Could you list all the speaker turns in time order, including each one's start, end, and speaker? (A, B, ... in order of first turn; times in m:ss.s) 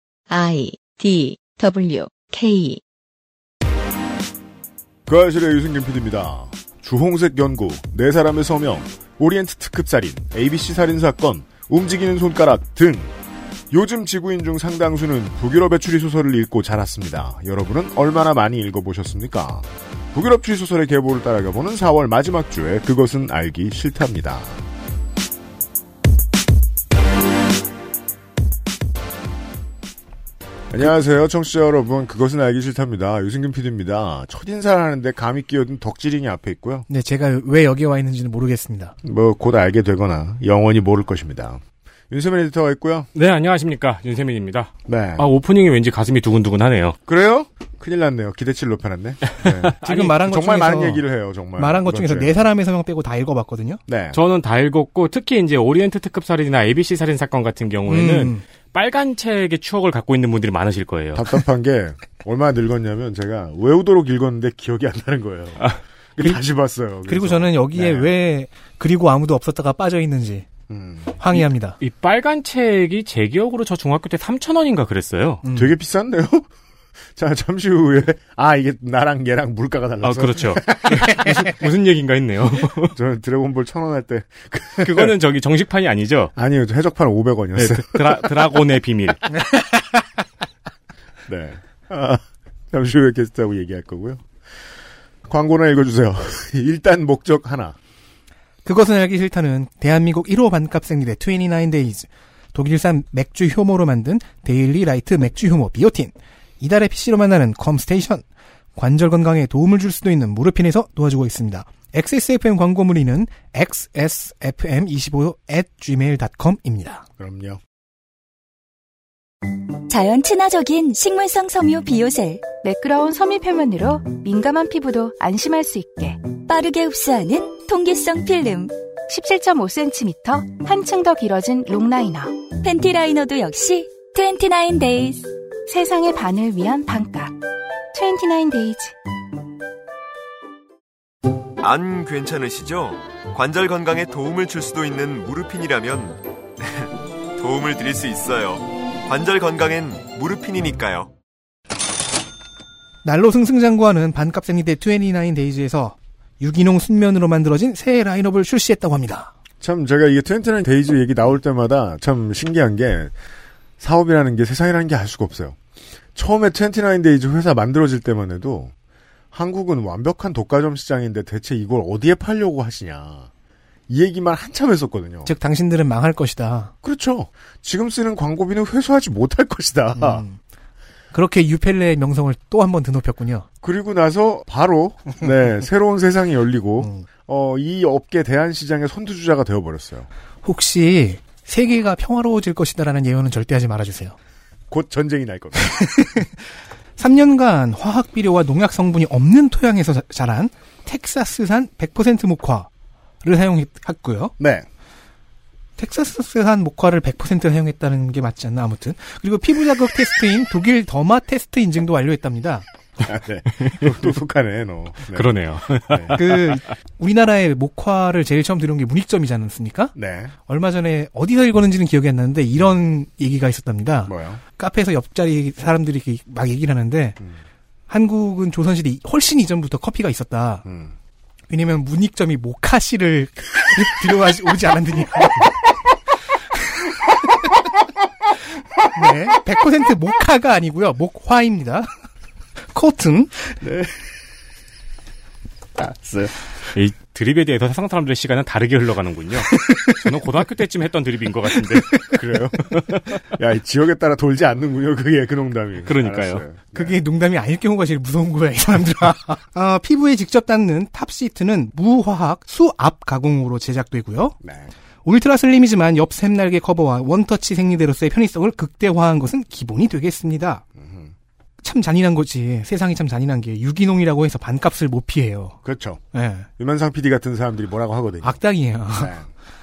0:00.3-0:02.8 A
0:05.1-0:13.1 B
0:13.7-0:24.6 B
0:30.7-0:36.9 B
0:36.9-0:38.9 C
0:39.0-0:43.1 B
0:43.1-0:47.0 D
0:44.8-0:45.3 B
0:47.1-0:52.4 B
0:49.8-0:50.1 D
0:49.8-0:51.0 C
0:51.6-0:53.8 C
0:53.9-0:54.2 B
0:54.1-1:01.2 D
0:57.9-0:58.4 C
1:01.1-1:08.1 B
1:07.1-1:10.5 C
1:10.7-1:11.2 B
1:11.2-1:11.8 C
1:11.8-1:15.4 D
1:15.4-1:15.7 C
1:15.5-1:16.5 B
1:17.2-1:21.4 B
1:20.0-1:22.9 D
1:22.9-1:25.1 B
1:24.8-1:26.3 D
1:26.3-1:28.2 B
1:27.6-1:29.2 D
1:31.2-1:34.3 B
1:35.2-1:37.8 B
1:38.6-1:48.2 C
1:48.8-1:57.0 C
1:57.2-1:57.6 B
1:59.9-2:02.5 E
2:02.6-2:06.2 F
2:06.5-2:08.7 E
2:09.1-2:12.4 F
2:12.6-2:15.3 E
2:15.7-2:17.4 F
2:17.9-2:19.0 F
2:21.6-2:31.1 G
2:33.0-2:39.3 C
2:39.6-2:43.1 B
2:43.8-2:45.6 B
2:46.2-2:48.7 B
2:49.3-2:53.3 B
2:53.9-2:55.3 B
2:55.3-2:56.7 C
2:56.8-3:00.2 B
3:00.0-3:00.4 C
3:01.1-3:03.5 C
3:03.6-3:10.1 B
3:06.8-3:07.1 C
3:10.4-3:14.2 C
3:14.7-3:16.2 B
3:15.6-3:16.4 C
3:17.0-3:22.7 C
3:23.2-3:24.3 C
3:24.4-3:24.7 B
3:25.8-3:32.6 C
3:33.1-3:35.3 B
3:35.1-3:36.6 D
3:35.9-3:36.2 B
3:36.1-3:39.9 C
3:40.0-3:40.3 B
3:40.5-3:47.2 C
3:44.1-3:44.4 B
3:47.9-3:50.6 C
3:50.6-3:50.9 B
3:51.5-3:55.5 C
3:58.9-4:01.9 C
4:02.7-4:03.4 C
4:03.6-4:04.0 B
4:05.8-4:06.3 B
4:06.7-4:12.0 D
4:09.6-4:09.8 C
4:12.0-4:17.0 B
4:15.8-4:16.4 D
4:16.7-4:24.4 C
4:24.4-4:24.7 B
4:25.0-4:30.6 C
4:30.8-4:31.1 B
4:31.6-4:35.6 C
4:35.6-4:36.0 B
4:36.1-4:36.5 C
4:36.6-4:38.4 B
4:38.2-4:39.2 C
4:38.9-4:39.3 B